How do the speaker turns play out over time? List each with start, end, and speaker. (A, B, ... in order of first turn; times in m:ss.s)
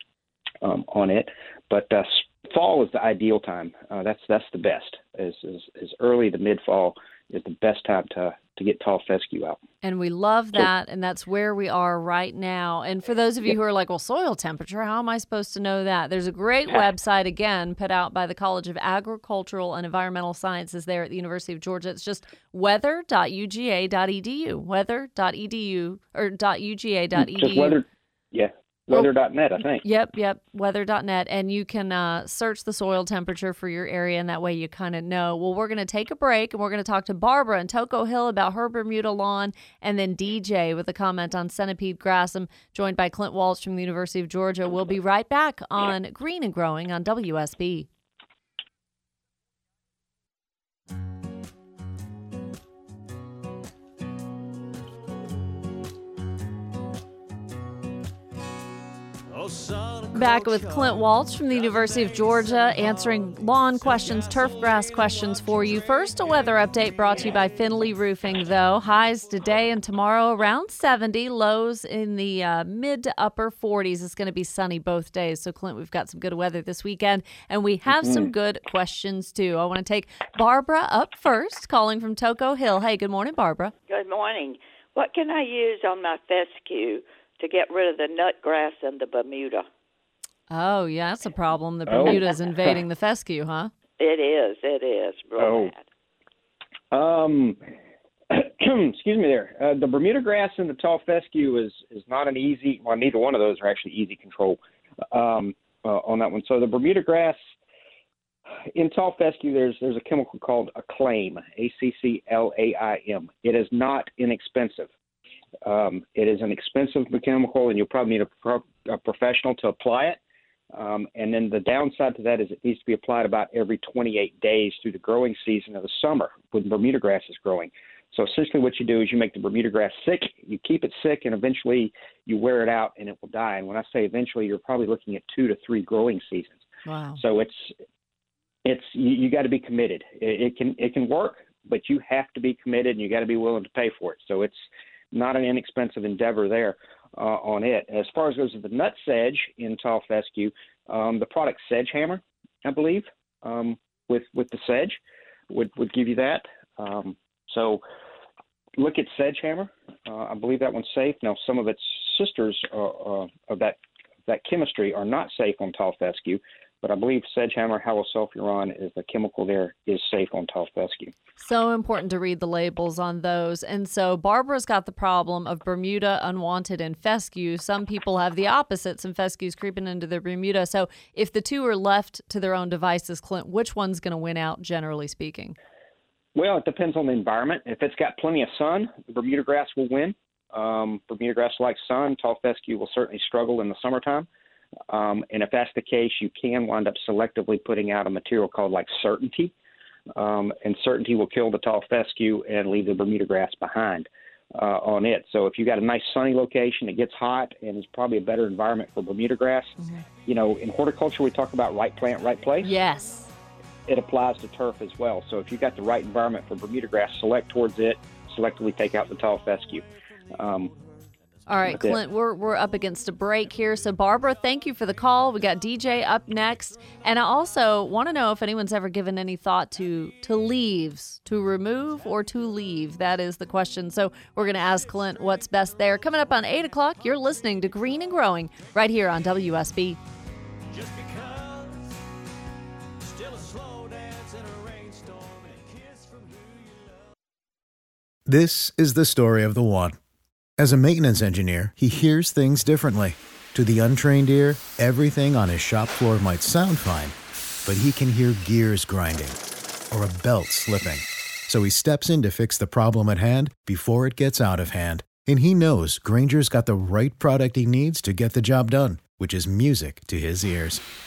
0:00.6-0:09.6 A
0:09.8-0:27.8 B
0:27.2-0:29.8 A
0:29.8-0:47.9 B
0:59.3-1:07.2 C
1:00.1-1:23.7 B
1:18.0-1:18.2 A
1:23.9-1:29.6 D
1:30.5-1:33.7 B
1:31.9-1:32.2 A
1:34.0-1:35.8 D
1:35.4-1:35.7 A
1:36.9-1:37.6 A
1:38.3-1:44.6 A
1:45.1-1:47.4 A
1:48.7-1:54.9 A
1:55.6-2:00.2 A
2:00.7-2:16.6 A
2:16.8-2:17.2 B
2:17.1-2:17.7 A
2:18.6-2:35.0 A
2:35.5-2:37.8 A
2:38.8-2:51.1 A
2:51.4-3:05.6 B
3:06.3-3:14.3 A
3:14.9-3:19.5 A
3:20.1-3:32.7 A
3:32.6-3:33.3 B
3:33.9-3:39.8 A
3:40.3-3:40.7 A
3:41.5-4:00.0 B
3:41.6-3:42.0 A
4:00.7-4:02.0 C
4:03.0-4:07.1 C
4:08.3-4:10.0 E
4:10.6-4:17.1 E
4:17.6-4:19.4 E
4:19.9-4:30.8 E